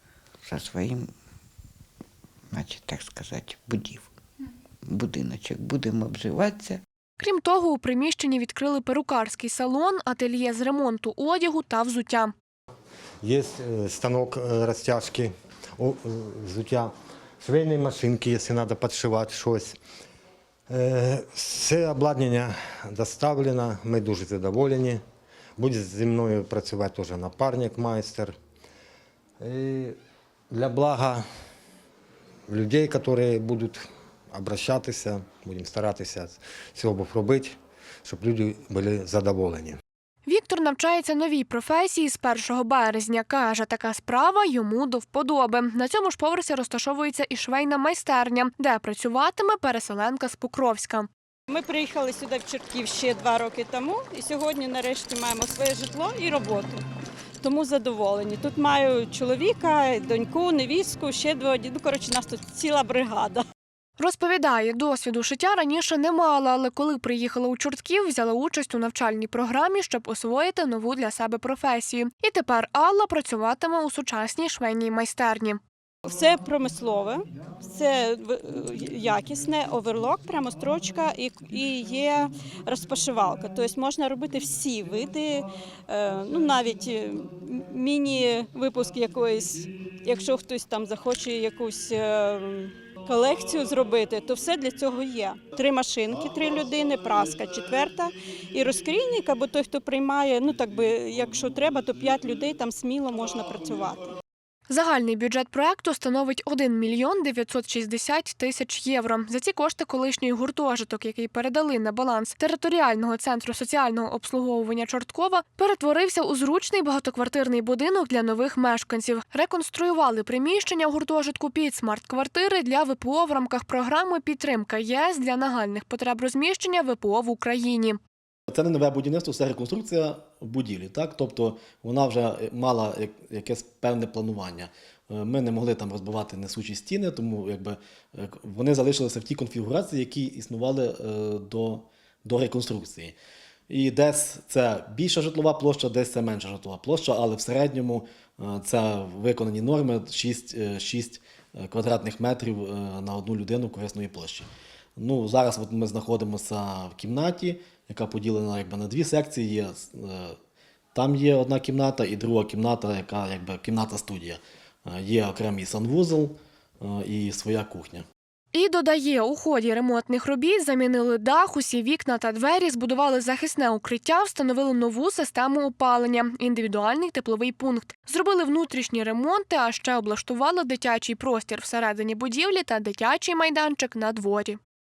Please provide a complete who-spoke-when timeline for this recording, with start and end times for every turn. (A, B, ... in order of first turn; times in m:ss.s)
0:00.4-0:01.1 A
0:02.5-0:04.1 A
0:04.9-0:06.8 A
0:07.2-0:12.3 B
0:13.2-0:19.8 C
0:20.7-0:25.0 C
0:25.6-0:28.3 C
0:29.4-0:30.0 C
0:30.5-0:31.2 C
0:32.5-0:33.8 C
0:34.3-0:39.8 C
0:40.3-0:51.1 B
0:51.5-0:56.8 D
0:57.4-1:03.4 D
1:04.0-1:15.6 B
1:16.1-1:44.1 D
1:44.7-2:08.0 B
2:08.5-2:23.2 E
2:23.7-2:40.4 E
2:41.0-2:48.1 E
2:48.5-3:04.6 B